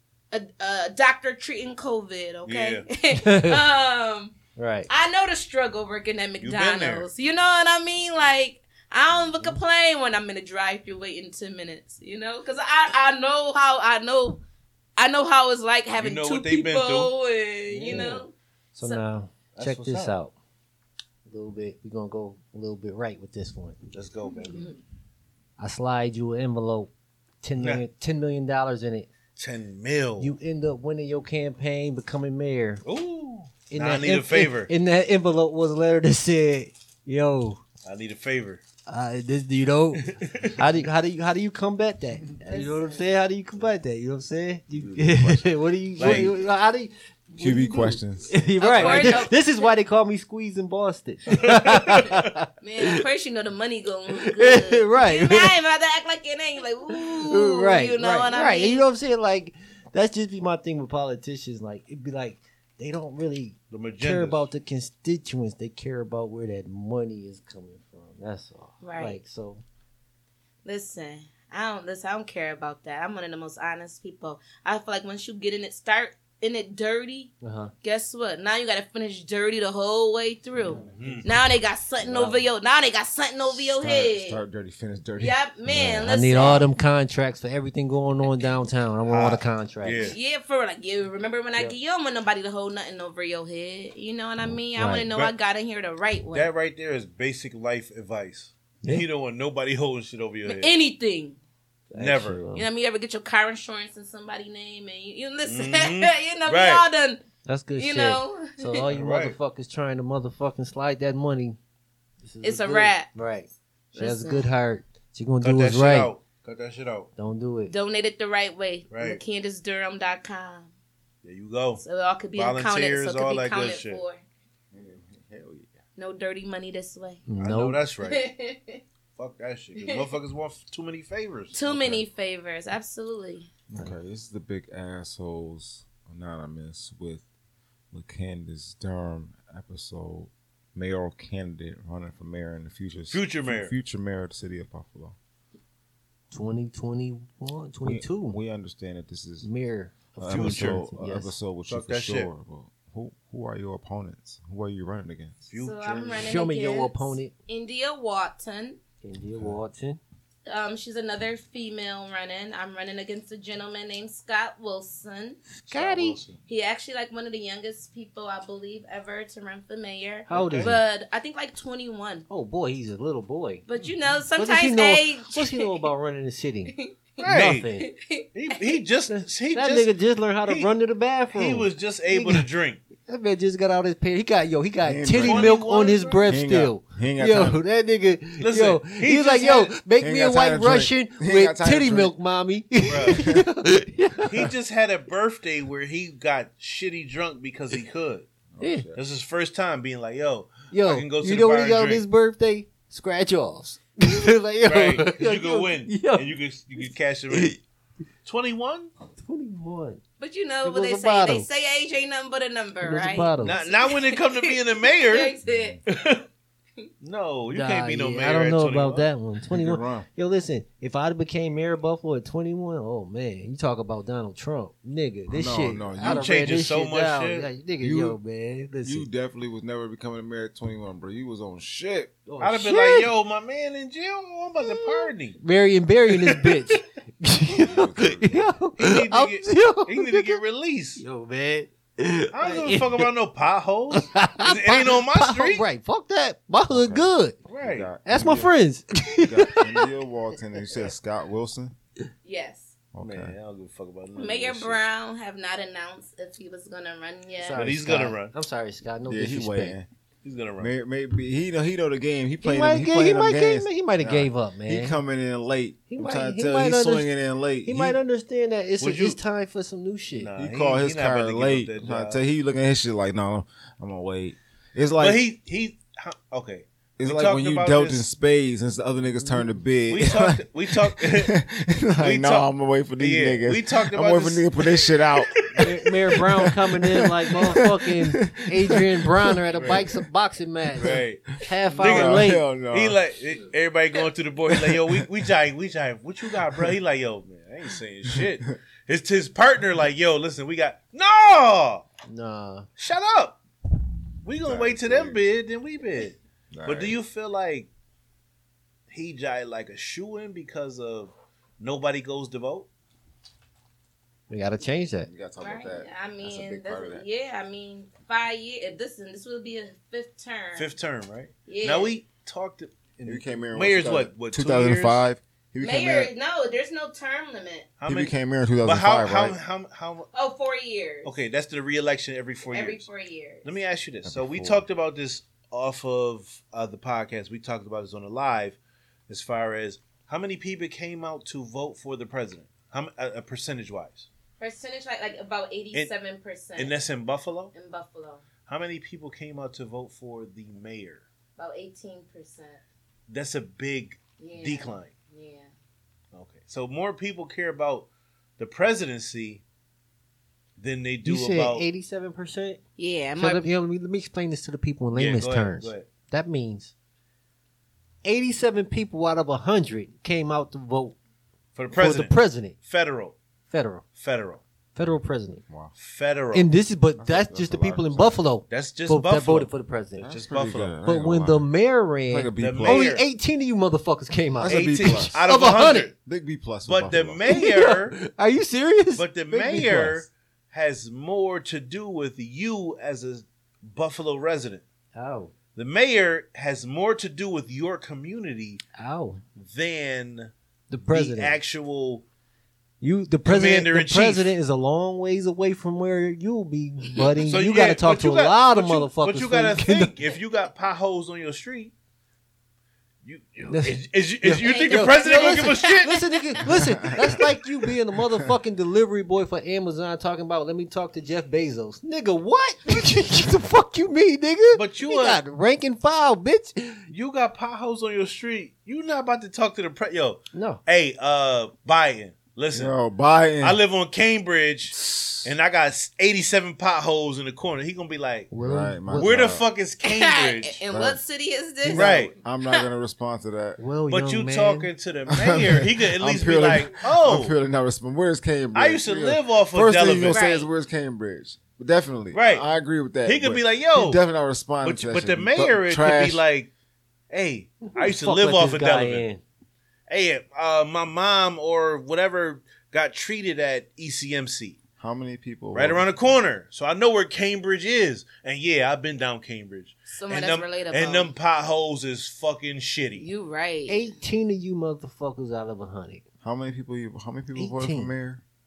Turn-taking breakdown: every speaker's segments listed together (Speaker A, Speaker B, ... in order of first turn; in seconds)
Speaker A: 0.3-4.3, 4.9-14.4, 15.0-19.0, 24.4-24.8, 42.5-42.8, 48.6-49.7, 52.6-58.9, 68.8-69.2, 70.6-84.4, 85.2-86.7, 90.0-96.5, 100.5-101.4, 102.5-107.2, 107.8-108.9, 112.4-113.1, 113.9-114.5, 117.7-120.7, 121.8-124.2, 126.0-127.2, 128.0-128.8, 131.5-133.5, 155.6-158.8, 160.4-165.4, 166.4-172.3, 173.7-175.9, 176.7-177.2, 177.8-178.7, 210.2-215.8, 252.2-252.7, 254.1-257.6, 315.4-320.7, 321.5-321.9, 325.6-327.7, 330.1-331.1, 332.5-333.4, 344.4-346.8, 347.5-348.2, 351.4-352.6, 354.2-355.5, 362.8-363.5, 414.4-416.4, 439.8-442.7, 450.1-450.5, 469.9-471.1, 473.0-474.0
Speaker B: 2.4-2.9, 6.4-7.1, 16.0-17.1, 19.5-20.1, 23.9-24.7, 27.6-27.8, 29.4-30.3, 32.8-34.7, 37.8-38.6, 40.0-40.6, 44.8-45.4, 46.0-46.4, 48.7-49.2, 51.3-52.2, 63.7-64.5, 80.8-81.3, 89.1-90.2, 96.3-100.7, 101.9-102.4, 105.4-106.8, 108.9-109.4, 115.4-117.1, 118.9-119.2, 121.2-121.8, 122.3-124.0, 127.4-128.3, 129.2-132.0, 143.1-143.7, 150.3-150.8, 151.7-152.3, 155.5-156.3, 165.7-166.4, 170.3-170.8, 177.2-177.7, 178.3-179.9, 180.4-180.7, 181.3-182.8, 185.2-186.4, 188.4-189.8, 192.8-193.3, 194.2-198.3, 198.9-202.0, 204.6-207.6, 208.2-208.9, 213.4-215.3, 215.9-216.2, 217.0-219.1, 226.0-227.5, 232.4-235.4, 236.1-236.6, 238.8-241.0, 242.3-245.6, 247.5-247.9, 253.0-254.8, 257.5-258.3, 260.2-260.7, 268.8-269.2, 270.1-272.2, 275.0-278.1, 279.9-281.3, 282.0-285.6, 289.5-289.9, 290.8-301.9, 302.8-303.4, 304.2-307.7, 308.9-312.7, 320.5-325.1, 327.8-330.1, 331.0-332.9, 333.4-338.6, 339.1-344.1, 346.6-347.5, 348.4-351.1, 353.1-354.9, 356.1-359.4, 360.6-361.6, 364.9-365.9, 371.6-373.2, 374.0-374.4, 375.8-376.5, 378.5-380.7, 382.4-383.0, 384.5-385.9, 386.6-388.0, 388.9-394.6, 395.5-398.6, 399.4-402.0, 403.2-404.4, 407.2-411.7, 413.0-416.0, 424.5-425.2, 426.9-432.8, 433.4-438.3, 438.9-440.6, 441.7-442.1, 443.9-447.3, 448.5-450.2, 452.1-452.4, 453.0-454.0, 454.6-456.5, 457.1-459.1, 459.9-464.6, 465.5-473.1
Speaker C: 3.1-3.6, 4.6-4.9, 17.7-20.3, 21.3-23.8, 25.6-26.9, 27.4-29.1, 30.2-32.8, 33.7-37.6, 38.9-53.0, 54.2-55.5, 56.9-69.6, 77.4-77.7, 86.0-90.1, 94.4-95.1, 101.9-102.7, 107.5-111.6, 112.2-116.1, 117.2-117.7, 127.2-127.8, 146.3-148.4, 149.4-151.3, 156.1-157.3, 159.0-160.0, 165.7-166.2, 170.3-170.8, 172.3-173.6, 174.3-177.9, 179.1-182.4, 183.1-194.5, 198.6-198.9, 200.7-206.3, 206.8-207.6, 209.2-210.0, 210.6-211.5, 212.8-213.6, 217.5-229.1, 232.3-233.1, 234.6-240.4, 241.0-243.1, 243.9-247.4, 248.0-249.9, 257.4-259.8, 262.4-265.0, 265.9-267.1, 267.6-270.3, 279.2-279.5, 285.6-292.4, 302.1-302.7, 314.3-315.1, 361.0-362.6, 363.2-366.7, 368.0-370.9, 371.7-372.5, 373.5-373.8, 374.7-375.4, 376.3-380.1, 380.8-385.9, 387.3-389.9, 394.9-395.3, 398.8-399.2, 400.7-401.4, 402.8-409.9, 413.5-426.9, 430.3-430.6, 438.3-439.4, 443.6-444.7, 457.6-459.2, 473.7-476.0, 477.4-477.9
Speaker D: 47.4-48.3, 83.4-86.1, 124.7-125.7, 133.7-137.2, 137.9-145.2, 147.8-149.5, 150.2-155.5, 184.8-185.6, 186.3-187.6, 190.0-192.1, 193.2-193.4, 198.5-199.0, 215.4-215.8, 219.5-220.1, 225.3-226.5, 227.8-228.2, 228.8-232.1, 237.5-238.5, 246.7-248.5, 249.1-251.7, 252.9-253.3, 259.0-259.9, 260.6-268.0, 270.3-275.2, 277.0-290.0, 290.7-291.0, 291.8-293.0, 294.5-295.0, 304.4-305.2, 306.5-306.9, 315.0-317.0, 323.0-326.1, 327.9-329.4, 334.0-334.6, 375.5-375.7, 377.0-378.2, 380.0-381.5, 382.1-382.9, 384.4-385.2, 386.0-387.4, 389.3-390.0, 416.6-417.0, 432.5-433.6, 434.7-435.3, 438.4-439.4, 440.7-441.0, 441.6-443.6, 445.1-456.2, 464.8-465.9, 476.2-478.2